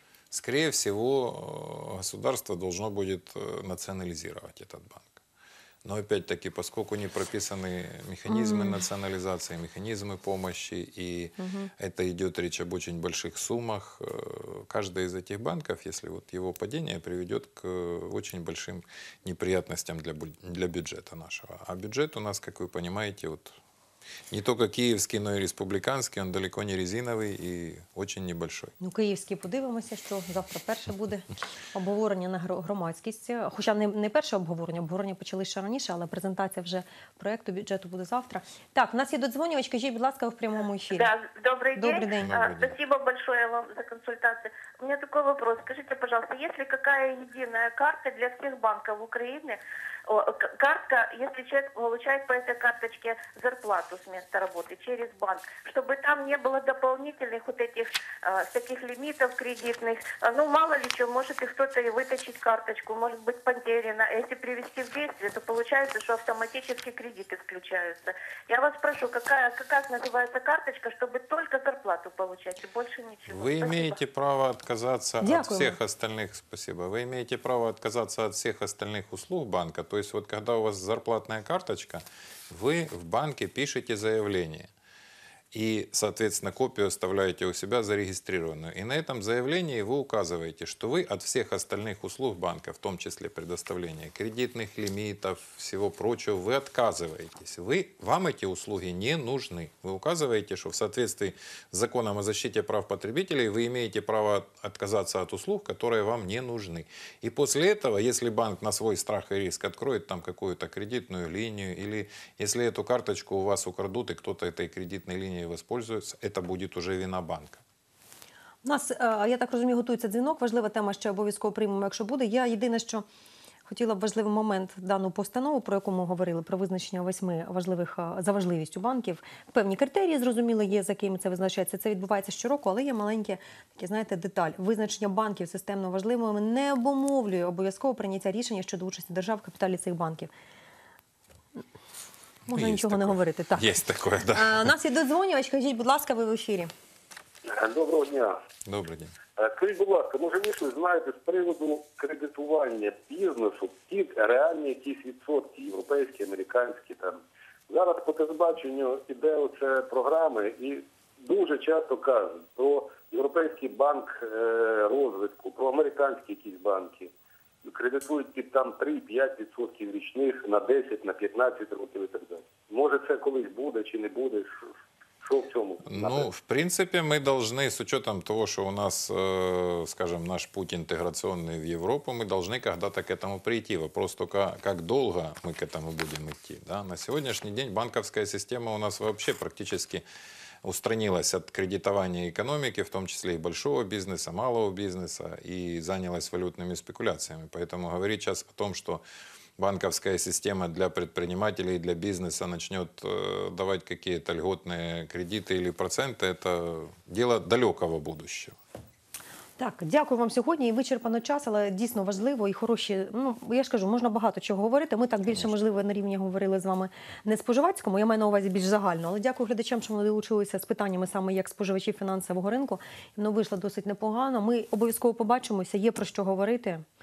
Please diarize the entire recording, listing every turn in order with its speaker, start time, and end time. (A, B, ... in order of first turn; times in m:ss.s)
0:00.3-0:05.2 A
0:05.8-0:23.6 A
0:08.3-0:08.8 B
0:11.4-0:11.7 B
0:24.3-0:28.7 A
0:28.8-0:41.1 B
0:40.9-1:14.0 C
0:41.8-0:42.4 B
0:42.2-0:42.8 A
1:13.3-1:24.7 A
1:15.2-1:15.8 B
1:25.5-1:57.6 A
1:58.6-2:03.0 B
2:03.7-2:20.3 B
2:22.5-2:23.7 B
2:22.5-2:24.7 A
2:24.3-2:26.7 B
2:27.5-2:28.4 D
2:28.6-2:29.2 A
2:29.4-2:47.1 D
2:47.6-2:54.5 D
2:55.2-2:56.3 D
2:55.9-3:10.0 A
3:10.6-3:19.0 A
3:19.6-3:28.6 A
3:29.6-3:46.8 B